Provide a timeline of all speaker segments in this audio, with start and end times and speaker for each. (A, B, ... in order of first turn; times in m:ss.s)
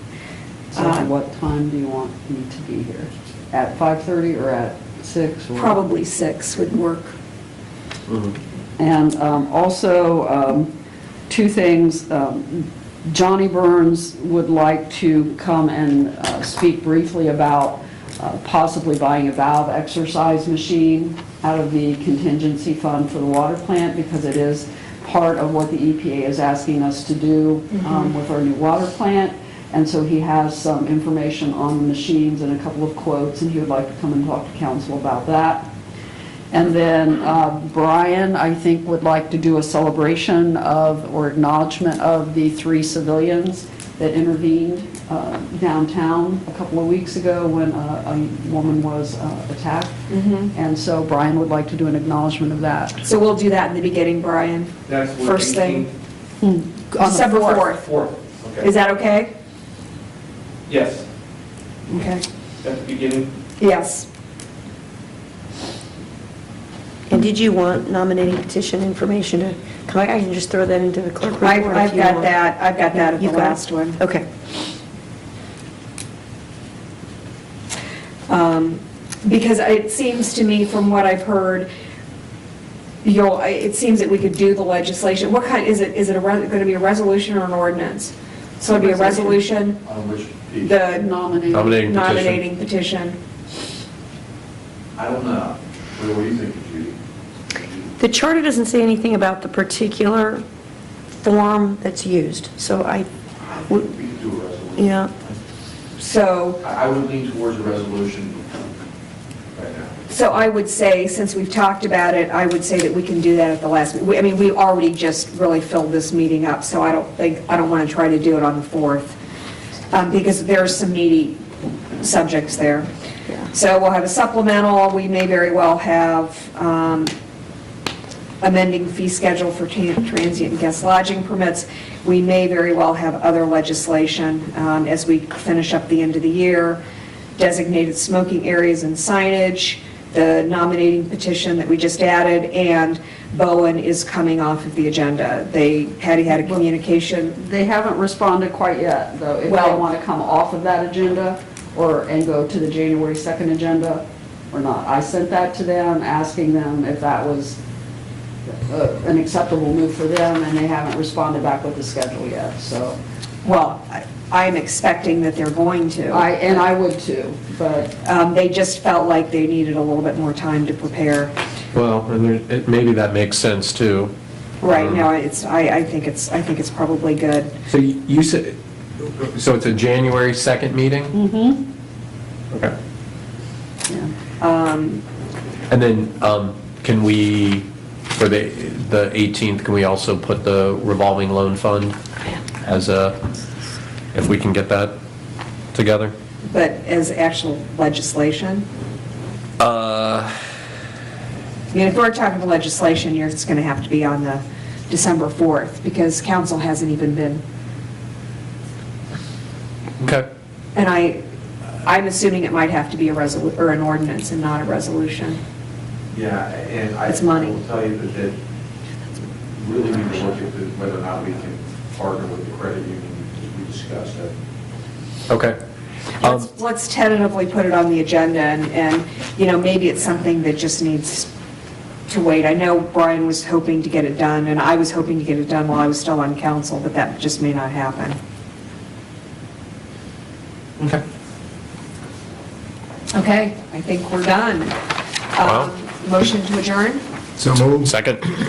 0:00.7-0:05.8 A
0:00.8-0:01.1 B
0:05.6-0:07.2 B
0:08.8-0:10.7 A
0:11.3-0:35.7 A
0:36.5-0:50.0 A
0:50.1-0:50.5 B
0:50.5-0:53.0 A
0:53.0-0:55.9 B
0:54.9-0:55.9 C
0:56.4-0:57.7 A
0:57.0-0:57.9 B
0:57.8-0:58.6 C
0:58.6-0:59.3 B
1:00.7-1:01.0 C
1:01.9-1:02.2 B
1:02.6-1:03.3 C
1:03.6-1:04.1 B
1:07.1-1:12.3 D
1:11.4-1:14.0 B
1:13.1-1:14.3 D
1:18.3-1:21.7 B
1:23.0-1:29.8 B
1:28.8-1:29.4 A
1:29.8-1:30.8 E
1:30.6-1:31.1 B
1:30.9-1:31.9 A
1:31.5-1:32.4 F
1:31.8-1:33.2 B
1:35.0-1:37.0 E
1:38.0-1:40.4 D
1:41.2-1:43.1 D
1:43.5-1:45.4 E
1:44.8-1:45.1 D
1:46.0-1:46.6 B
1:46.6-1:48.6 E
1:49.6-1:49.9 E
1:50.1-1:59.2 B
1:59.9-2:01.4 B
2:02.0-2:02.9 B
2:03.5-2:07.1 B
2:08.4-2:16.8 B
2:17.4-2:27.4 B
2:26.3-2:26.6 A
2:27.4-2:37.6 A
2:29.5-2:29.8 B
2:38.5-2:43.0 A
2:43.4-2:46.7 B
2:46.1-2:48.0 A
2:48.0-2:51.3 B
2:51.7-2:54.1 F
2:54.6-2:57.5 B
2:54.7-2:55.0 F
2:57.7-3:01.1 F
3:01.1-3:01.6 A
3:04.4-3:05.0 B
3:05.7-3:12.0 F
3:12.6-3:13.2 F
3:14.1-3:14.9 F
3:15.7-3:16.1 F
3:16.5-3:18.6 B
3:19.6-3:20.4 F
3:21.7-3:27.4 B
3:30.0-3:30.3 F
3:30.8-3:31.2 B
3:31.8-3:35.4 B
3:36.1-3:38.4 E
3:37.1-3:37.5 B
3:39.6-3:44.3 E
3:45.3-3:45.6 F
3:46.2-3:51.3 B
3:46.2-3:46.5 F
3:52.1-3:58.2 B
4:03.1-4:04.7 B
4:05.3-4:07.0 B
4:05.4-4:05.7 F
4:07.6-4:08.3 F